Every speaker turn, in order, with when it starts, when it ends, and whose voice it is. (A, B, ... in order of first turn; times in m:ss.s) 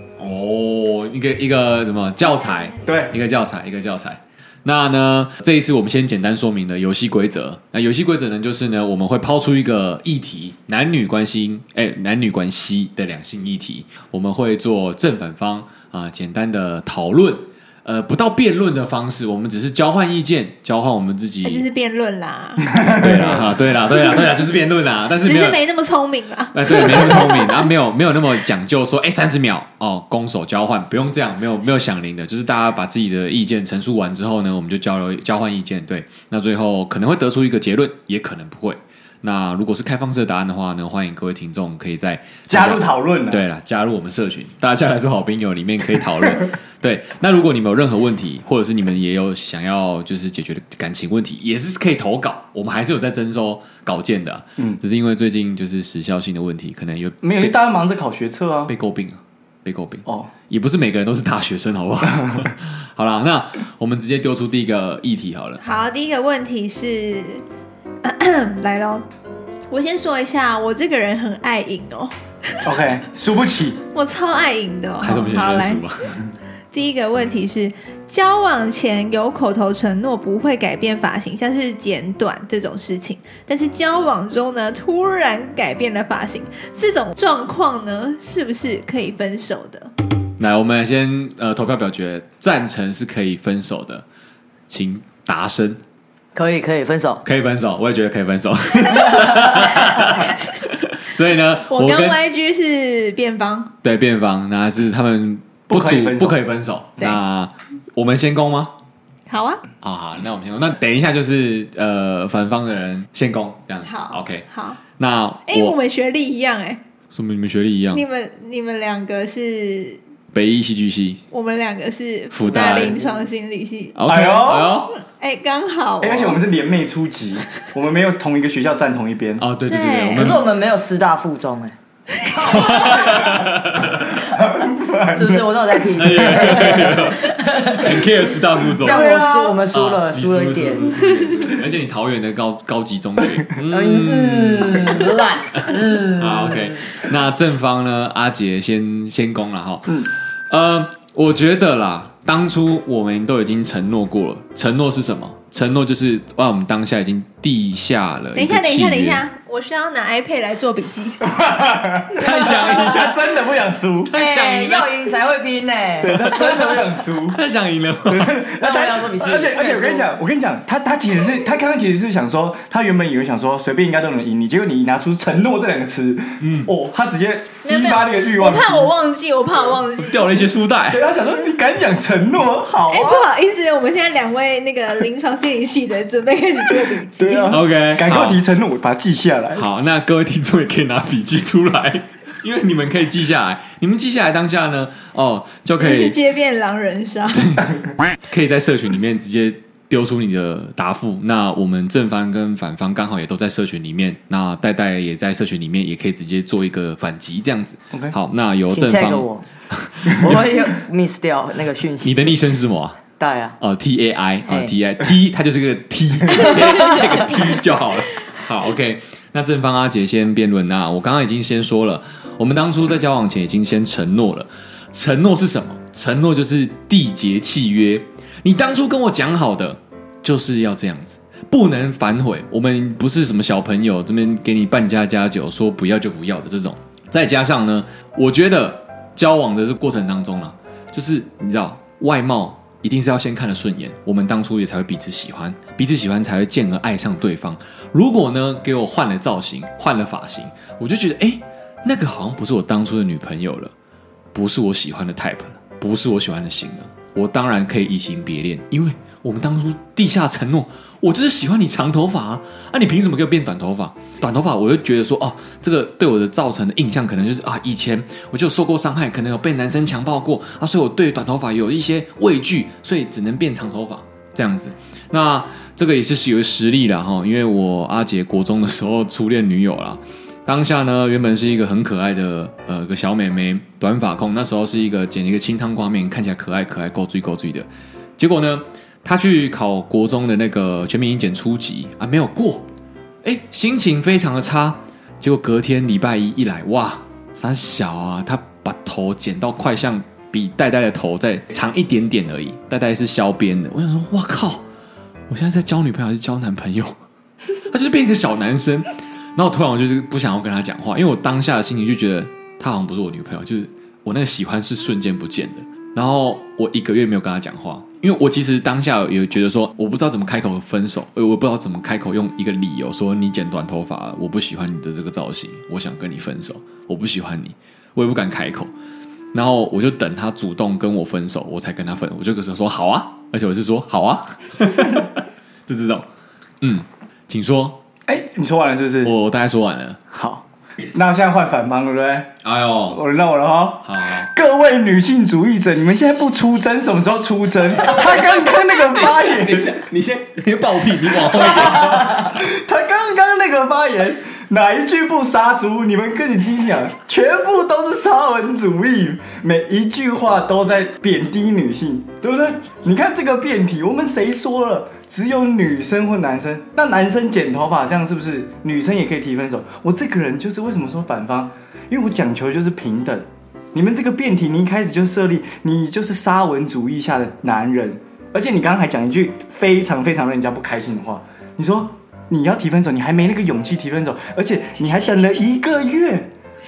0:00.2-0:21.6 A
0:02.8-0:03.1 B
0:21.4-0:22.8 C
0:22.7-0:23.5 B
0:22.8-0:25.6 A
0:25.2-0:27.7 C
0:26.5-0:57.5 A
0:42.5-0:43.4 B
0:57.2-0:58.7 B
0:58.7-1:05.6 A
1:00.1-1:00.3 B
1:05.6-1:07.4 C
1:08.0-1:09.0 C
1:09.7-1:12.7 C
1:12.6-1:13.8 B
1:13.9-1:15.8 C
1:15.0-1:16.3 A
1:16.7-1:29.9 C
1:30.4-1:34.0 A
1:34.7-1:35.8 A
1:36.3-1:37.2 D
1:37.2-1:42.2 A
1:39.3-1:39.8 D
1:41.7-1:43.7 C
1:43.8-1:48.7 A
1:45.7-1:46.4 B
1:49.3-1:49.6 C
1:49.8-1:54.5 A
1:53.8-1:54.8 C
1:55.0-1:55.8 A
1:55.5-1:56.8 C
1:57.1-1:58.0 A
1:57.9-2:00.0 C
2:00.3-2:01.2 A
2:01.3-2:04.0 C
2:02.3-2:03.0 A
2:04.0-2:04.9 A
2:04.0-2:04.8 B
2:05.1-2:06.4 C
2:06.0-2:09.4 B
2:09.4-2:10.5 A
2:09.7-2:10.4 C
2:10.2-2:11.8 D
2:12.2-2:12.8 C
2:12.4-2:14.2 A
2:14.2-2:15.7 B
2:15.1-2:18.1 D
2:15.9-2:19.2 A
2:18.7-2:21.2 D
2:18.8-2:19.6 B
2:19.7-2:39.2 A
2:23.7-2:27.0 D
2:38.3-2:41.3 C
2:41.3-2:44.1 B
2:42.1-2:43.3 A
2:42.2-2:43.1 D
2:44.1-2:44.9 A
2:44.1-2:46.8 D
2:46.0-2:47.4 B
2:47.3-2:48.4 A
2:48.0-2:58.9 B
2:48.5-2:50.1 D
2:56.4-2:56.7 A
2:57.6-3:00.2 C
3:00.0-3:01.0 A
3:00.9-3:03.3 B
3:02.9-3:07.6 C
3:07.2-3:09.6 B
3:07.5-3:08.4 A
3:09.5-3:16.2 A
3:15.8-3:17.6 C
3:17.3-3:17.7 A
3:18.3-3:30.6 A
3:27.9-3:28.2 B
3:28.7-3:29.5 D
3:30.0-3:32.4 D
3:32.0-3:33.0 A
3:33.2-3:33.6 D
3:33.6-4:13.7 A
3:34.5-3:34.7 D
3:36.6-3:37.0 D
4:14.3-4:47.7 A
4:48.2-4:52.6 A
4:53.2-5:04.6 A
5:05.3-5:07.0 A
5:07.6-5:28.7 A
5:29.3-5:36.0 A
5:36.6-5:37.8 A
5:38.0-5:39.2 B
5:39.0-5:40.0 A
5:40.1-5:42.4 B
5:42.4-5:43.0 A
5:42.9-5:49.9 B
5:43.8-5:44.3 A
5:48.0-5:52.3 A
5:51.3-6:26.3 B